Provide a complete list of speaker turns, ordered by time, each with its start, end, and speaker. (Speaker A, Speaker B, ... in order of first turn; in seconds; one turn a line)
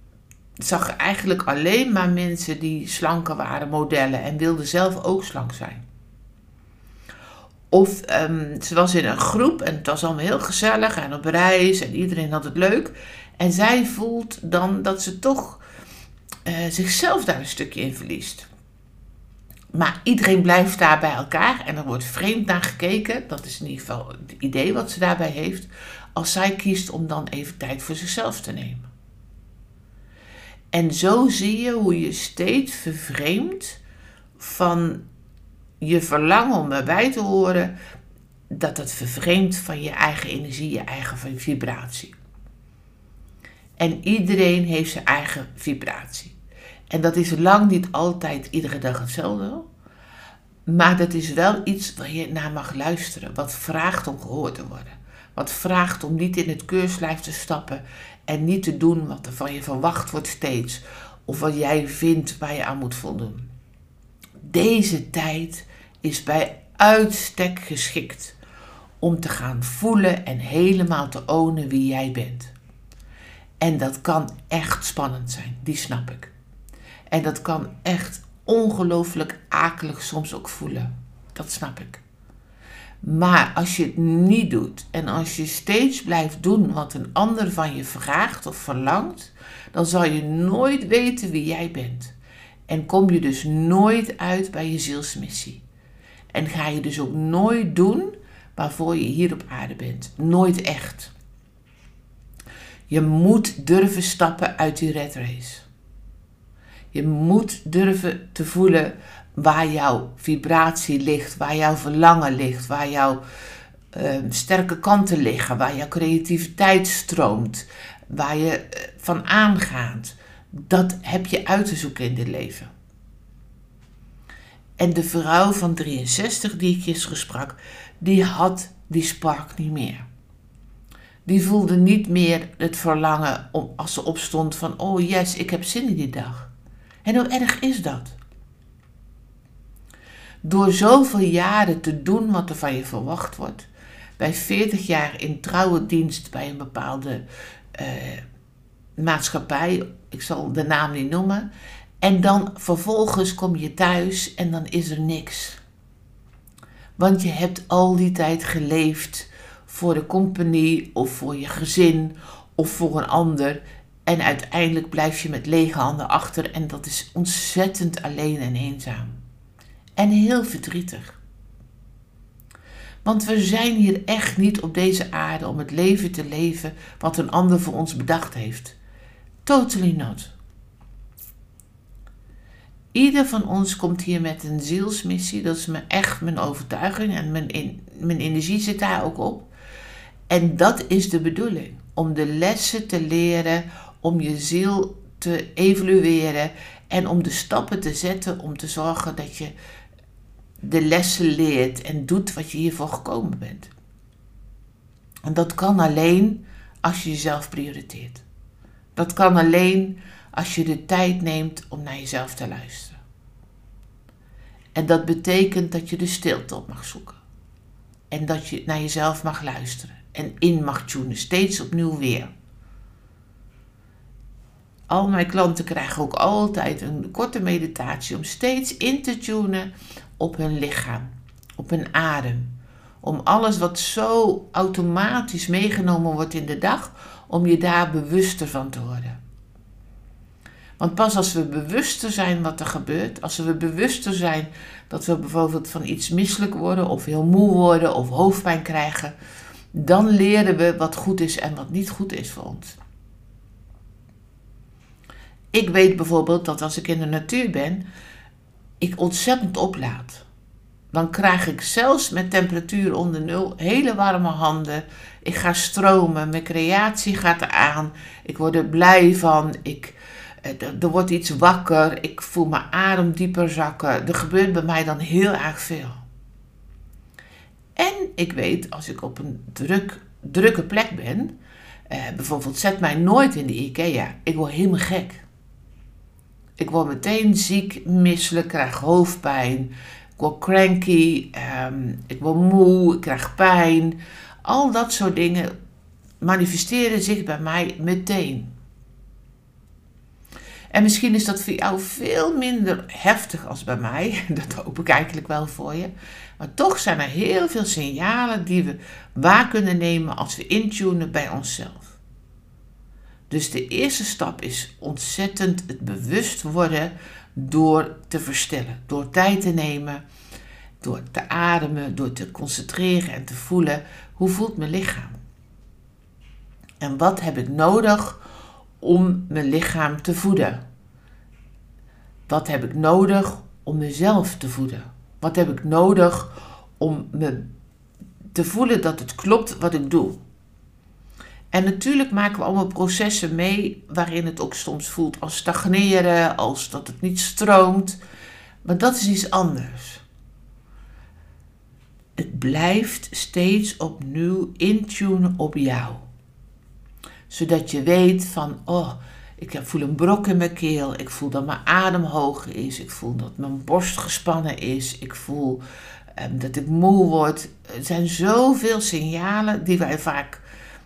Speaker A: 0.6-5.8
Speaker A: 7.7-15.6
Speaker A: 16.4-18.5
Speaker A: 19.7-28.9
Speaker A: 30.7-33.8
Speaker A: 34.4-35.0
Speaker A: 35.8-37.7
Speaker A: 38.5-42.1
Speaker A: 43.8-46.3
Speaker A: 46.9-49.6
Speaker A: 50.7-63.5
Speaker A: 64.4-68.4
Speaker A: 69.0-72.5
Speaker A: 73.6-76.3
Speaker A: 77.1-82.0
Speaker A: 83.0-92.1
Speaker A: 92.7-95.6
Speaker A: 96.3-101.1
Speaker A: 102.9-105.7
Speaker A: 106.9-113.2
Speaker A: 113.9-122.7
Speaker A: 124.8-130.0
Speaker A: 131.2-136.5
Speaker A: 137.0-138.2
Speaker A: 140.4-147.2
Speaker A: 147.7-148.2
Speaker A: 149.0-151.5
Speaker A: 152.0-155.6
Speaker A: 157.0-169.2
Speaker A: 170.0-171.2
Speaker A: 173.0-178.8
Speaker A: 179.4-180.3
Speaker A: 182.9-189.5
Speaker A: 190.3-199.5
Speaker A: 200.6-203.7
Speaker A: 205.2-208.2
Speaker A: 208.9-213.0
Speaker A: 214.7-217.2
Speaker A: 218.1-222.3
Speaker A: 224.9-239.2
Speaker A: 240.8-249.1
Speaker A: 249.7-252.8
Speaker A: 255.5-257.8
Speaker A: 258.8-260.2
Speaker A: 260.9-276.0
Speaker A: 277.8-281.3
Speaker A: 281.9-285.2
Speaker A: 286.6-295.5
Speaker A: 296.2-298.5
Speaker A: 300.7-311.9
Speaker A: 313.3-320.0
Speaker A: 320.8-325.1
Speaker A: 326.8-328.2
Speaker A: 328.8-330.6
Speaker A: 332.3-337.4
Speaker A: 338.3-340.2
Speaker A: 341.5-348.0
Speaker A: 348.6-350.0
Speaker A: 352.2-356.0
Speaker A: 357.3-365.6
Speaker A: 366.1-370.4